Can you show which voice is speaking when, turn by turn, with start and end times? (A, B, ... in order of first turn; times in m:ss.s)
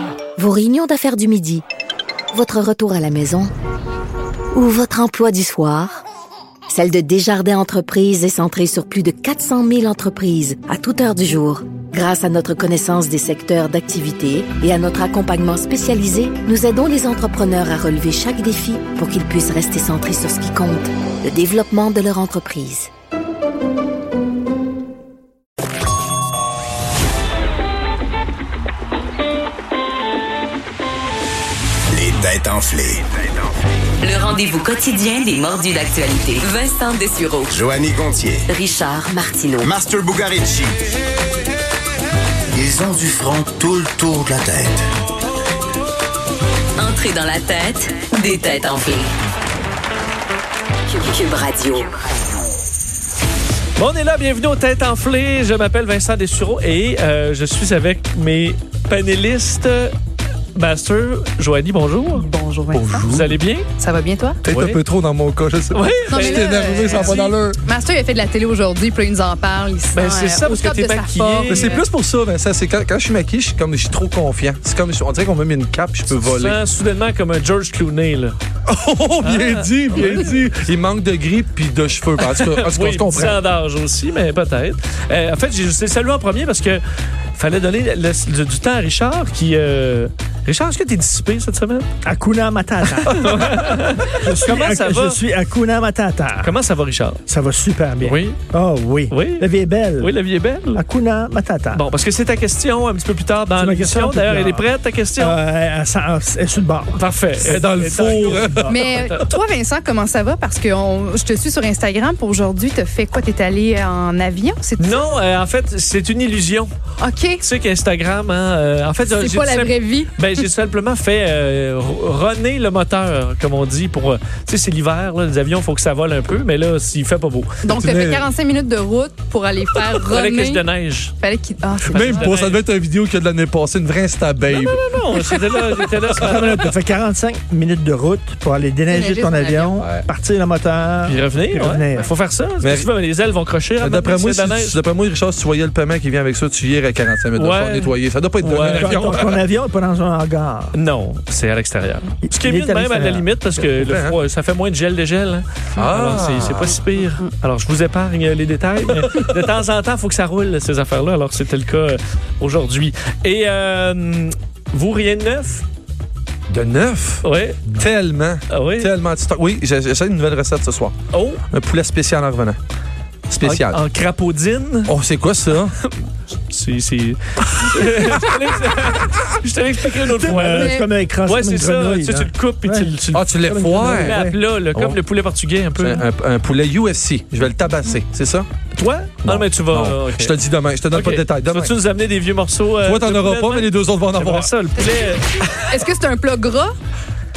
0:00.4-0:01.6 A
0:02.3-0:03.5 A
0:04.5-0:06.0 A
0:06.7-0:22.9 A
0:31.9-0:33.0 B
0:34.0-0:37.6 C
0:37.5-0:38.5 B
0:38.5-0:39.6 A
0:38.5-0:39.0 C
0:39.6-0:40.7 B
0:42.5-0:44.8 B
0:46.8-0:49.1 C
0:50.9-0:51.9 C
0:53.8-0:59.9 D
1:00.5-1:02.3 D
1:02.1-1:03.0 E
1:02.7-1:03.3 F
1:03.1-1:03.7 D
1:03.8-1:04.4 E
1:04.4-1:07.6 F
1:04.5-1:04.8 D
1:05.7-1:07.3 D
1:06.1-1:11.8 E
1:09.9-1:11.8 D
1:11.5-1:16.6 F
1:16.2-1:18.4 D
1:18.7-1:23.4 F
1:19.2-1:20.4 D
1:22.2-1:31.9 D
1:32.0-1:36.5 G
1:33.0-1:35.2 D
1:36.4-1:37.2 D
1:37.3-1:40.2 G
1:38.0-1:38.4 D
1:39.1-1:40.8 D
1:40.7-1:41.8 G
1:41.7-1:45.4 D
1:43.5-1:47.0 G
1:46.9-1:49.3 D
1:47.4-1:49.0 F
1:47.6-1:48.8 G
1:48.7-1:55.1 E
1:54.8-1:56.7 D
1:57.0-1:57.4 E
1:57.4-2:07.6 D
1:59.0-2:00.1 E
2:07.6-2:10.6 E
2:07.7-2:08.1 G
2:07.8-2:08.2 F
2:10.1-2:11.1 D
2:11.2-2:12.4 E
2:11.9-2:16.5 F
2:11.9-2:12.6 D
2:14.5-2:16.7 D
2:16.1-2:22.1 G
2:18.9-2:19.8 E
2:19.8-2:20.0 F
2:21.0-2:24.8 D
2:22.6-2:22.9 F
2:23.8-2:29.4 F
2:27.3-2:29.2 D
2:28.8-2:30.8 G
2:30.7-2:45.6 D
2:32.2-2:33.6 G
2:33.8-2:34.2 F
2:35.8-2:36.7 F
2:46.5-2:50.9 F
2:47.2-2:47.8 D
2:48.5-2:48.9 D
2:51.1-2:51.4 D
2:51.5-2:52.6 F
2:53.3-2:53.8 F
2:53.4-2:54.9 D
2:54.9-2:55.7 F
2:55.8-3:03.3 D
3:00.1-3:04.4 G
3:00.5-3:00.9 E
3:03.1-3:04.2 F
3:04.0-3:06.0 D
3:04.7-3:05.0 F
3:05.8-3:08.5 F
3:08.7-3:10.3 D
3:09.2-3:11.7 F
3:10.9-3:15.8 D
3:12.8-3:14.5 F
3:15.2-3:16.7 E